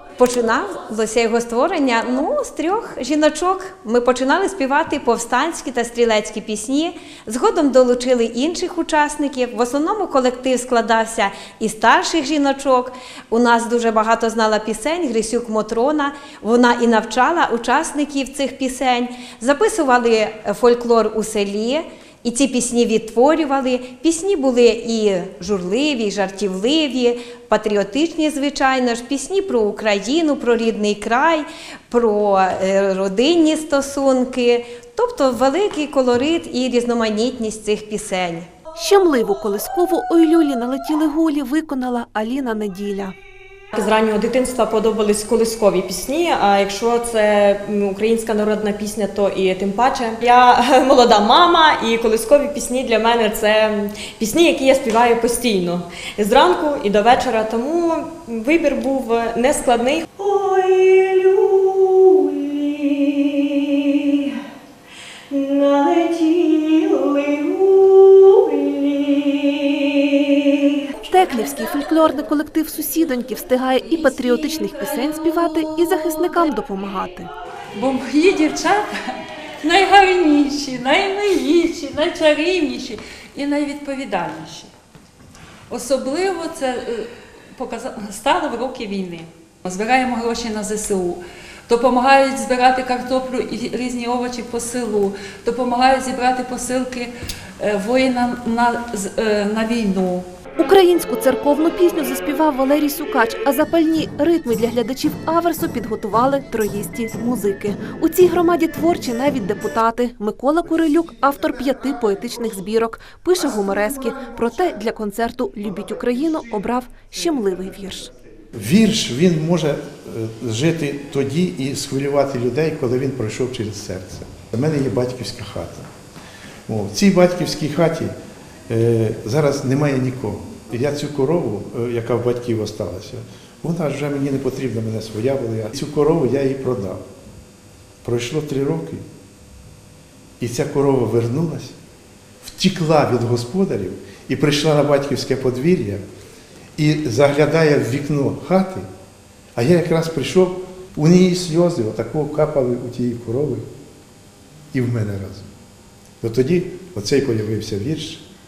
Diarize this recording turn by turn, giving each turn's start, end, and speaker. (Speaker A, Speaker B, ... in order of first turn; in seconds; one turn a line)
Speaker A: 0.2-38.5
Speaker B: 38.8-43.1
Speaker C: 43.7-64.4
Speaker C: 65.3-70.9
Speaker B: 71.0-77.3
Speaker D: 77.7-84.7
Speaker D: 85.7-100.3
Speaker B: 100.6-118.1
Speaker E: 118.5-125.9
Speaker E: 126.7-128.1
Speaker E: 128.7-137.0
Speaker E: 138.0-139.0
Speaker E: 140.4-141.8
Speaker E: 142.4-146.0
Speaker E: 146.8-148.9
Speaker E: 149.6-153.7
Speaker E: 154.7-155.5
Speaker E: 156.2-158.2